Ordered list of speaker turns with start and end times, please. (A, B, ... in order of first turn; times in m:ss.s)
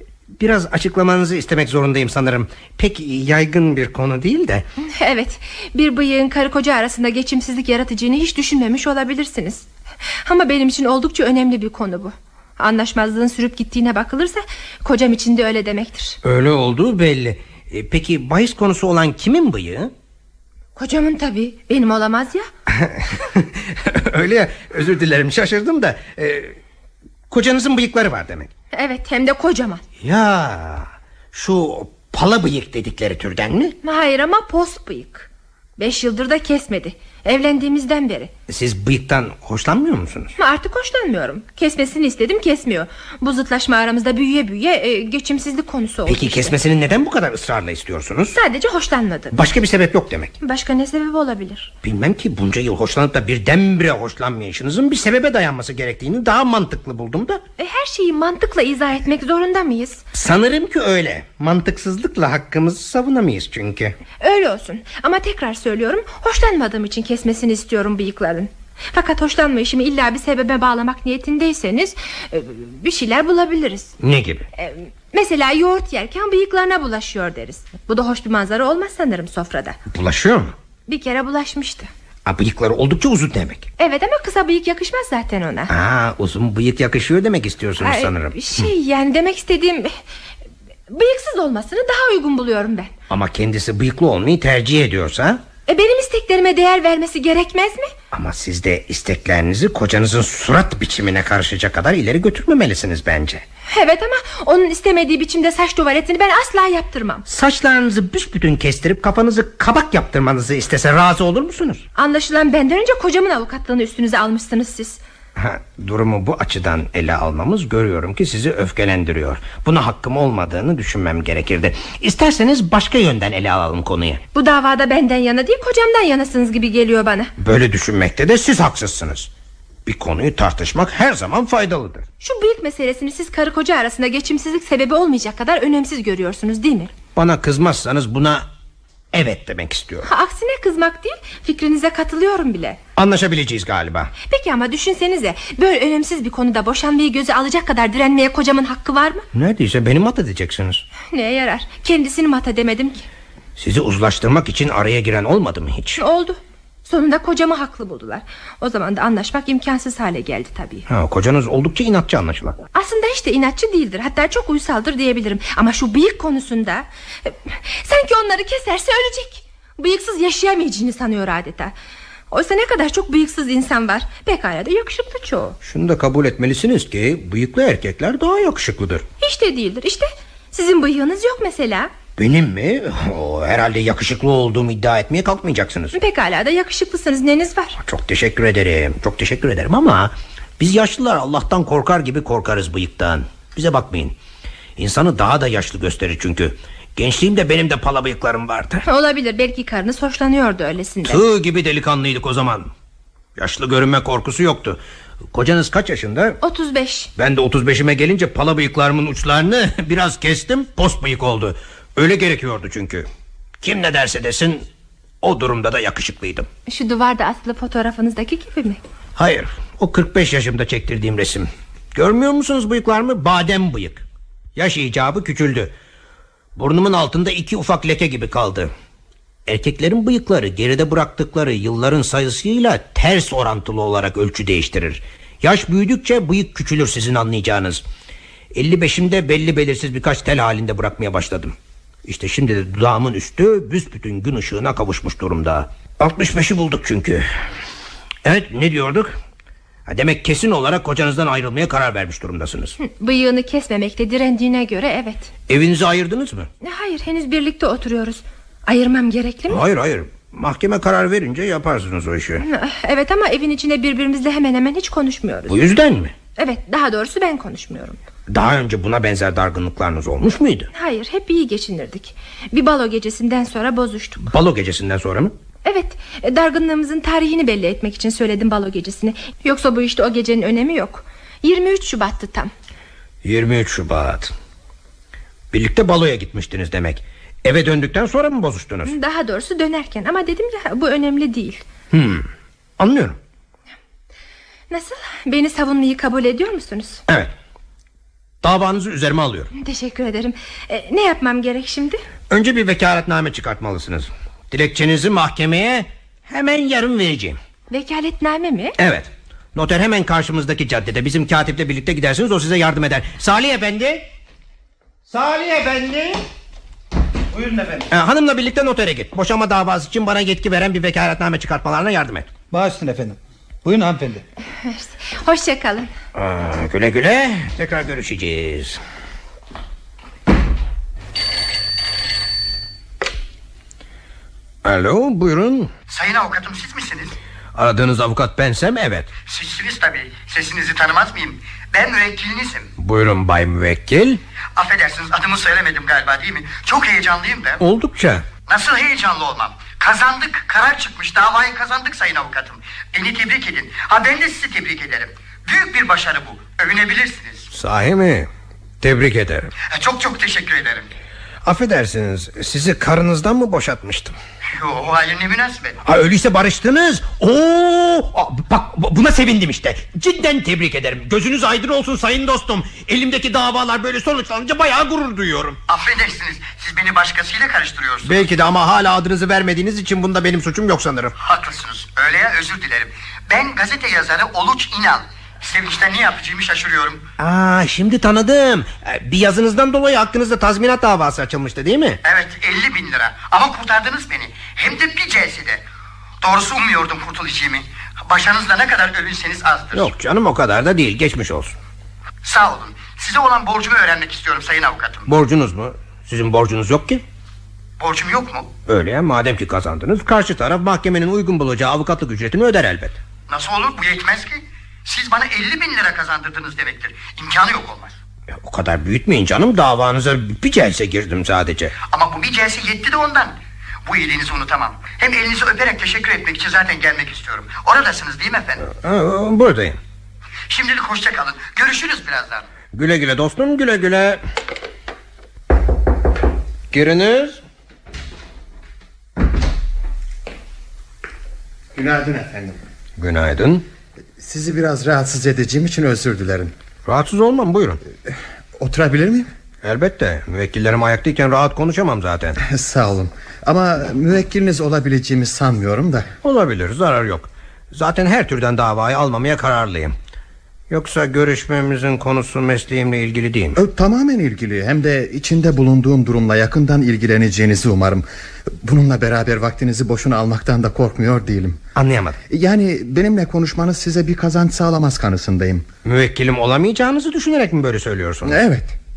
0:00.4-0:04.6 A
0:04.9-0:16.2 B
0:16.2-0:19.9 A
0:20.8-0:22.5 B
0:22.7-0:26.6 A
0:27.3-0:28.5 A
0:28.7-0:29.8 B
0:30.0-0:33.8 A
0:33.8-0:38.3 B
0:38.5-0:40.3 A
0:40.4-0:46.5 B
0:46.0-0:48.4 A
0:48.3-0:49.4 B
0:49.3-0:50.3 A
0:50.4-0:51.7 B
0:51.8-0:57.4 A
0:57.6-1:00.0 B
1:00.1-1:04.0 A
1:04.2-1:13.9 B
1:14.0-1:14.5 A
1:14.6-1:19.8 B
1:19.9-1:20.5 A
1:20.9-1:21.9 B
1:22.2-1:23.7 A
1:23.8-1:25.7 B
1:25.7-1:28.7 A
1:27.8-1:29.9 B
1:30.9-1:32.9 B
1:33.1-1:35.4 A
1:35.7-1:37.9 B
1:38.1-1:43.4 A
1:43.7-1:47.2 B
1:47.3-1:51.8 A
1:51.9-1:55.0 B
1:55.4-2:04.2 A
2:04.3-2:07.3 B
2:07.4-2:09.3 A
2:09.8-2:12.0 A
2:12.2-2:16.9 B
2:17.1-2:18.4 A
2:19.1-2:20.1 A
2:20.0-2:22.8 B
2:23.0-2:24.1 A
2:24.3-2:29.2 B
2:29.3-2:30.8 A
2:31.1-2:33.0 B
2:33.6-2:36.0 A
2:36.0-2:40.8 B
2:40.9-2:42.6 A
2:42.7-2:51.7 B
2:52.3-2:55.6 B
2:55.6-2:59.0 A
2:59.2-3:01.9 B
3:02.2-3:05.9 A
3:05.9-3:07.8 B
3:07.8-3:14.2 A
3:14.8-3:18.8 A
3:18.8-3:21.2 B
3:21.0-3:22.7 A
3:23.4-3:24.8 A
3:25.3-3:26.4 A
3:26.4-3:27.1 B
3:27.2-3:33.0 A
3:33.6-3:34.6 A
3:35.2-3:36.5 A
3:36.7-3:38.8 B
3:39.2-3:44.0 A
3:44.6-3:45.7 A
3:46.6-3:48.7 A
3:49.5-3:57.8 A
3:58.5-4:07.3 A
4:08.2-4:09.1 A
4:09.9-4:12.8 A
4:12.8-4:15.3 B
4:15.5-4:16.5 A
4:16.6-4:19.6 B
4:19.5-4:22.4 A
4:22.4-4:25.5 B
4:25.5-4:26.1 A
4:26.4-4:28.0 B
4:28.3-4:30.7 A
4:30.7-4:34.3 B
4:34.2-4:35.3 A
4:35.6-4:42.5 B
4:43.2-4:44.3 A
4:45.5-4:48.9 A
4:48.8-4:51.6 B
4:51.9-4:52.3 A
4:52.8-4:53.2 A
4:54.7-4:57.0 B
4:58.4-4:59.5 A
4:59.5-5:02.0 B
5:02.3-5:07.4 A
5:07.7-5:08.8 B
5:08.8-5:14.1 A
5:15.1-5:16.2 A
5:17.3-5:17.8 C
5:17.9-5:22.3 A
5:22.5-5:24.2 C
5:24.6-5:25.9 B
5:26.1-5:28.8 A
5:34.6-5:35.7 A
5:35.9-5:37.1 D
5:37.5-5:39.1 A
5:39.3-5:42.7 D
5:42.8-5:44.2 A
5:44.6-5:47.6 D
5:47.6-5:48.3 A
5:48.5-5:57.4 D
5:57.5-5:58.3 A
5:58.8-5:59.5 A
5:59.6-6:00.8 D
6:01.4-6:04.2 A
6:04.5-6:05.8 D
6:05.8-6:15.6 A
6:15.7-6:18.2 D
6:18.0-6:21.1 A
6:21.2-6:27.0 D
6:27.2-6:32.0 A
6:32.0-6:35.6 D
6:36.2-6:39.9 D
6:39.7-6:41.6 A
6:42.2-6:45.1 D
6:45.0-6:47.0 A
6:47.8-6:48.5 D
6:48.6-6:53.0 A
6:53.3-6:57.9 D
6:58.3-7:01.7 A
7:01.8-7:08.6 D
7:08.6-7:09.8 A
7:10.5-7:12.4 D
7:12.7-7:14.2 A
7:16.7-7:17.4 A
7:21.7-7:22.6 E
7:23.0-7:23.6 A
7:24.2-7:26.5 E
7:26.8-7:27.8 A
7:28.1-7:29.3 E
7:29.6-7:32.4 A
7:32.4-7:36.1 E
7:36.2-7:39.9 A
7:40.7-7:43.6 A
7:43.5-7:51.6 E
7:51.8-7:52.2 A
7:52.3-7:55.6 E
7:55.8-7:58.4 A
7:58.2-7:58.8 E